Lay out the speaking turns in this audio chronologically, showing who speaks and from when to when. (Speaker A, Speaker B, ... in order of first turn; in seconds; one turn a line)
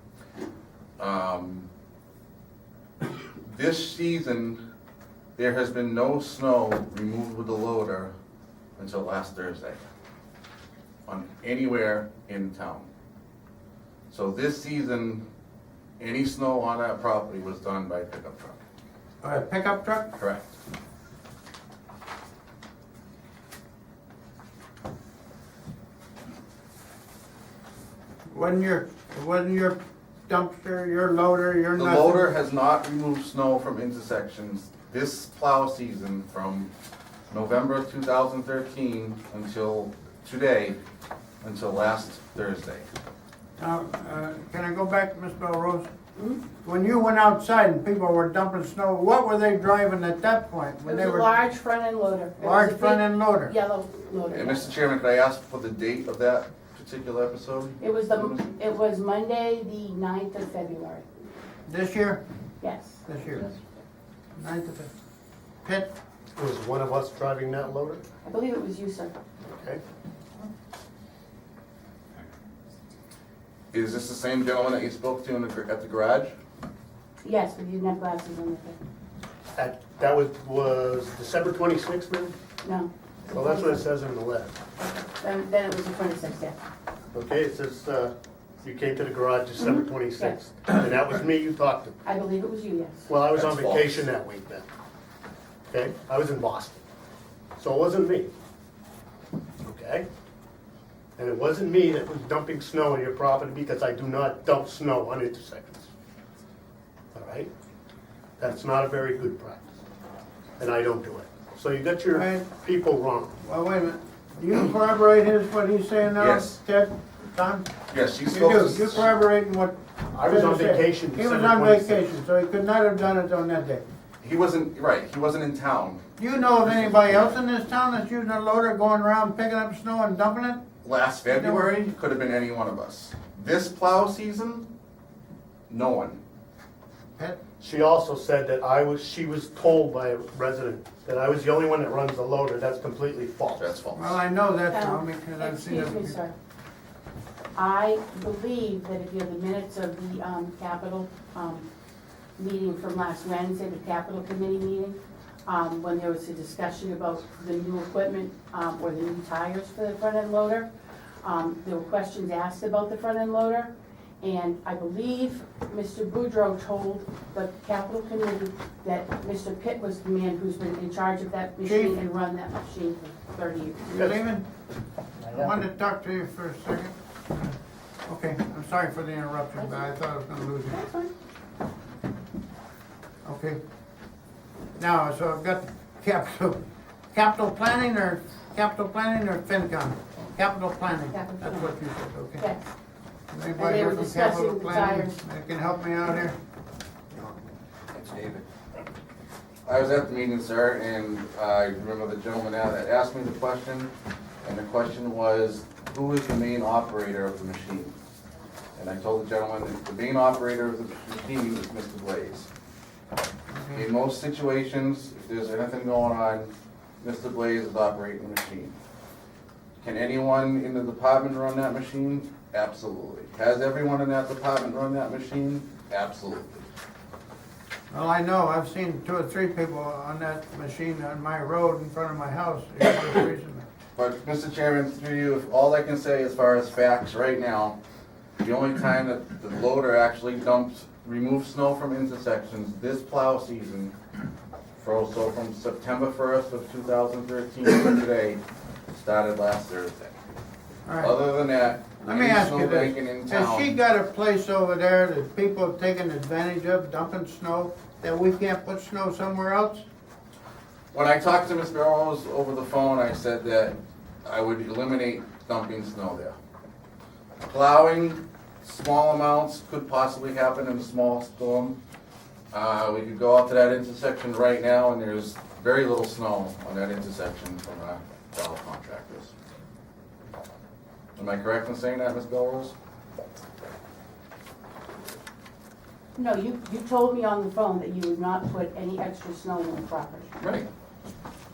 Speaker A: 1.0-1.7
Speaker A: 3.4-4.6
Speaker A: 5.4-8.1
Speaker A: 8.8-9.8
Speaker A: 11.1-12.9
Speaker A: 14.1-15.2
Speaker A: 16.0-18.6
Speaker B: 19.2-20.1
Speaker A: 20.2-20.5
Speaker B: 28.3-32.3
Speaker A: 31.8-36.7
Speaker A: 37.3-40.8
Speaker A: 41.4-42.9
Speaker B: 43.6-45.9
Speaker C: 46.2-46.4
Speaker B: 46.6-51.3
Speaker C: 50.9-54.7
Speaker B: 52.4-53.5
Speaker A: 54.3-58.4
Speaker C: 57.8-61.0
Speaker B: 61.7-62.2
Speaker C: 62.6-63.0
Speaker B: 63.1-63.5
Speaker B: 64.4-64.9
Speaker B: 65.6-65.9
Speaker D: 66.4-68.0
Speaker C: 68.2-69.2
Speaker D: 69.5-69.8
Speaker A: 73.7-76.3
Speaker C: 77.2-78.8
Speaker D: 79.6-82.3
Speaker C: 82.6-83.9
Speaker D: 83.3-84.6
Speaker C: 84.8-86.6
Speaker D: 87.1-92.0
Speaker C: 89.6-90.4
Speaker C: 92.0-93.1
Speaker D: 93.1-94.7
Speaker A: 93.3-94.1
Speaker D: 95.7-96.8
Speaker D: 97.6-98.3
Speaker D: 99.6-100.1
Speaker D: 101.2-105.9
Speaker D: 107.1-107.5
Speaker D: 108.4-109.7
Speaker D: 110.6-113.4
Speaker B: 112.1-112.5
Speaker B: 113.4-117.7
Speaker A: 116.2-116.6
Speaker A: 117.9-119.1
Speaker B: 118.3-123.8
Speaker D: 120.1-122.1
Speaker A: 124.2-126.0
Speaker B: 126.2-130.6
Speaker A: 126.6-127.4
Speaker A: 130.8-134.7
Speaker B: 131.3-131.7
Speaker A: 135.7-136.2
Speaker D: 137.6-143.7
Speaker A: 143.6-144.2
Speaker B: 143.9-146.2
Speaker C: 144.7-146.3
Speaker C: 147.6-151.7
Speaker C: 152.4-160.7
Speaker C: 161.2-174.0
Speaker B: 171.6-172.0
Speaker B: 173.9-174.4
Speaker B: 175.3-177.5
Speaker B: 178.1-180.8
Speaker C: 180.7-181.1
Speaker B: 183.2-183.6
Speaker B: 184.8-186.6
Speaker B: 187.1-192.5
Speaker C: 191.1-191.7
Speaker C: 192.4-192.7
Speaker B: 193.3-196.4
Speaker C: 193.6-195.2
Speaker A: 197.9-198.4
Speaker A: 199.7-203.9
Speaker A: 204.4-207.9
Speaker A: 208.8-212.5
Speaker B: 213.5-213.9
Speaker A: 213.7-218.8
Speaker A: 219.8-226.7
Speaker B: 227.9-233.7
Speaker A: 234.0-237.8
Speaker A: 238.4-243.9
Speaker A: 244.8-250.2
Speaker B: 250.8-251.2
Speaker A: 251.0-253.8
Speaker B: 252.0-259.8
Speaker A: 260.9-266.4
Speaker A: 267.5-271.8
Speaker A: 272.5-279.3
Speaker A: 281.2-282.7
Speaker C: 286.2-290.3
Speaker A: 290.4-290.7